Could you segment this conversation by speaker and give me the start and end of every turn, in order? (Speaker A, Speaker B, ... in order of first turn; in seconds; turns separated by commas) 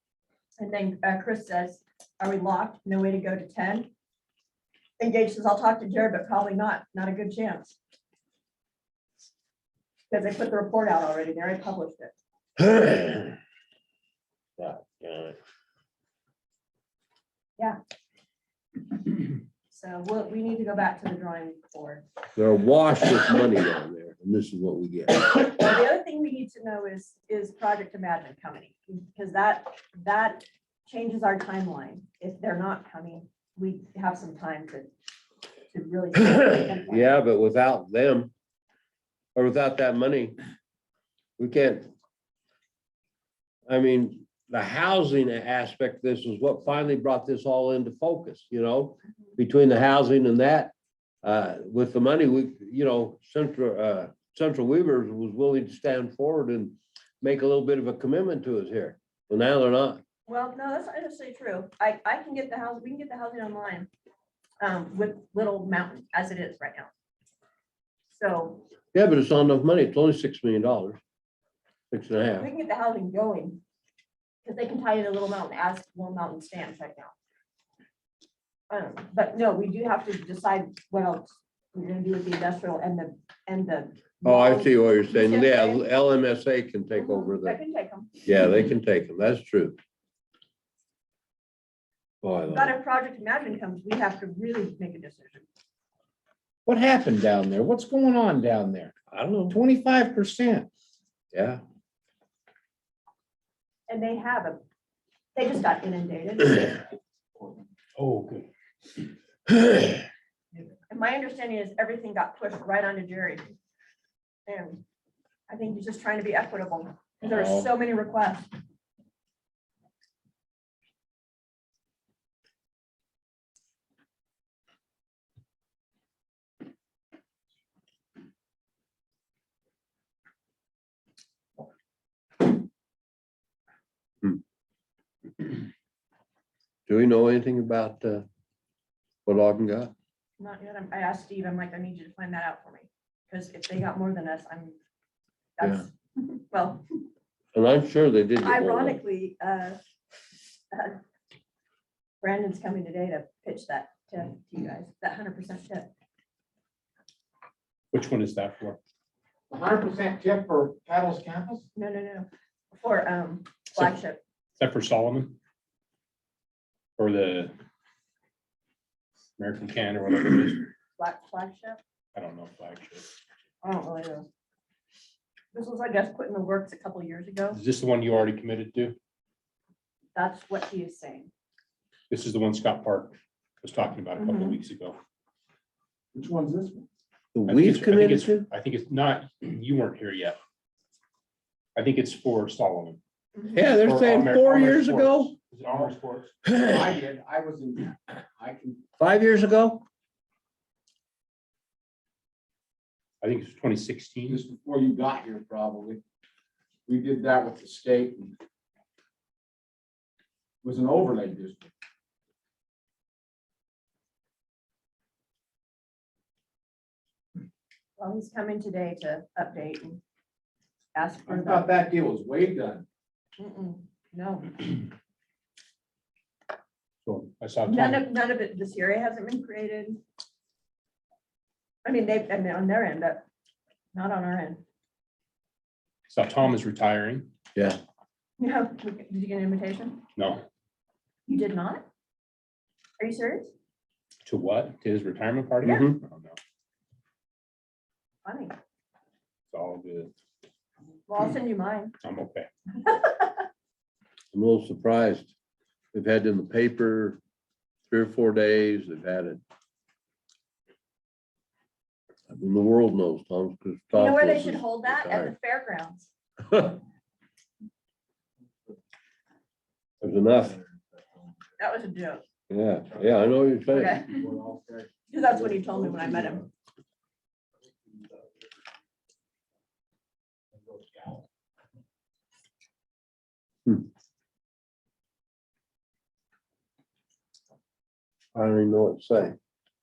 Speaker A: 0.6-3.9, Speaker A: 5.0-7.8, Speaker A: 10.1-12.1, Speaker B: 12.6-13.3, Speaker B: 14.6-15.4, Speaker A: 19.7-22.0, Speaker B: 22.4-25.3, Speaker A: 25.4-34.9, Speaker A: 35.7-37.2, Speaker B: 36.9-38.3, Speaker B: 39.3-40.4, Speaker B: 41.4-41.9, Speaker B: 43.7-60.0, Speaker A: 60.3-63.9, Speaker A: 64.6-66.9, Speaker A: 68.1-68.7, Speaker B: 68.9-71.0, Speaker B: 71.9-72.5, Speaker A: 72.4-73.6, Speaker A: 74.4-77.1, Speaker A: 78.7-85.8, Speaker B: 84.2-87.6, Speaker A: 86.9-88.1, Speaker B: 88.2-89.8, Speaker B: 92.2-92.7, Speaker A: 92.5-95.4, Speaker C: 96.7-98.9, Speaker B: 99.1-99.5, Speaker C: 99.5-100.7, Speaker B: 101.3-101.6, Speaker A: 103.9-104.6, Speaker A: 105.3-106.8, Speaker D: 108.0-108.5, Speaker A: 110.9-113.5, Speaker A: 114.5-114.8, Speaker A: 115.5-118.5, Speaker B: 136.9-138.2, Speaker B: 139.2-139.9, Speaker A: 140.4-144.8, Speaker A: 145.6-146.8, Speaker B: 147.5-149.0, Speaker A: 148.4-149.8, Speaker A: 150.7-151.0, Speaker A: 152.2-155.9, Speaker D: 157.9-158.8, Speaker C: 159.5-161.6, Speaker A: 161.7-164.2, Speaker D: 164.6-165.3, Speaker D: 167.0-167.5, Speaker D: 169.4-170.7, Speaker A: 171.0-171.8, Speaker D: 172.1-173.1, Speaker A: 173.6-174.3, Speaker A: 175.5-177.6, Speaker D: 177.5-178.9, Speaker A: 180.1-181.3, Speaker D: 182.1-185.0, Speaker A: 184.2-184.6, Speaker C: 186.1-186.9, Speaker B: 187.3-188.5, Speaker D: 187.5-190.4, Speaker D: 191.8-193.0, Speaker A: 193.3-193.6, Speaker B: 193.5-195.3, Speaker D: 193.6-196.3, Speaker C: 195.7-198.8, Speaker B: 196.4-196.8, Speaker B: 199.0-199.8, Speaker D: 203.2-204.4, Speaker C: 204.3-206.0, Speaker C: 206.9-208.3, Speaker C: 210.6-211.7, Speaker A: 218.0-220.0, Speaker A: 220.9-221.7, Speaker C: 221.2-222.8, Speaker A: 223.4-224.8, Speaker D: 227.0-228.1, Speaker A: 227.7-230.0, Speaker A: 231.8-233.2, Speaker A: 233.9-234.6, Speaker D: 236.1-237.3, Speaker A: 238.4-240.0, Speaker D: 240.2-240.4, Speaker A: 241.3-241.8, Speaker A: 243.0-243.5, Speaker D: 244.2-246.4, Speaker B: 245.6-246.0, Speaker A: 248.2-248.6, Speaker D: 249.5-250.1, Speaker A: 251.1-251.9, Speaker D: 252.0-252.5, Speaker A: 252.7-253.4, Speaker B: 254.3-255.3, Speaker B: 255.9-257.2, Speaker B: 257.9-259.4, Speaker B: 262.3-265.3, Speaker A: 263.9-266.1, Speaker B: 266.5-266.7, Speaker B: 270.0-270.6, Speaker C: 270.4-271.4, Speaker A: 271.6-272.2, Speaker B: 272.5-274.0, Speaker C: 272.9-276.5, Speaker A: 273.7-274.2, Speaker A: 275.1-276.4, Speaker C: 277.8-278.2, Speaker C: 280.6-281.2, Speaker B: 288.3-289.4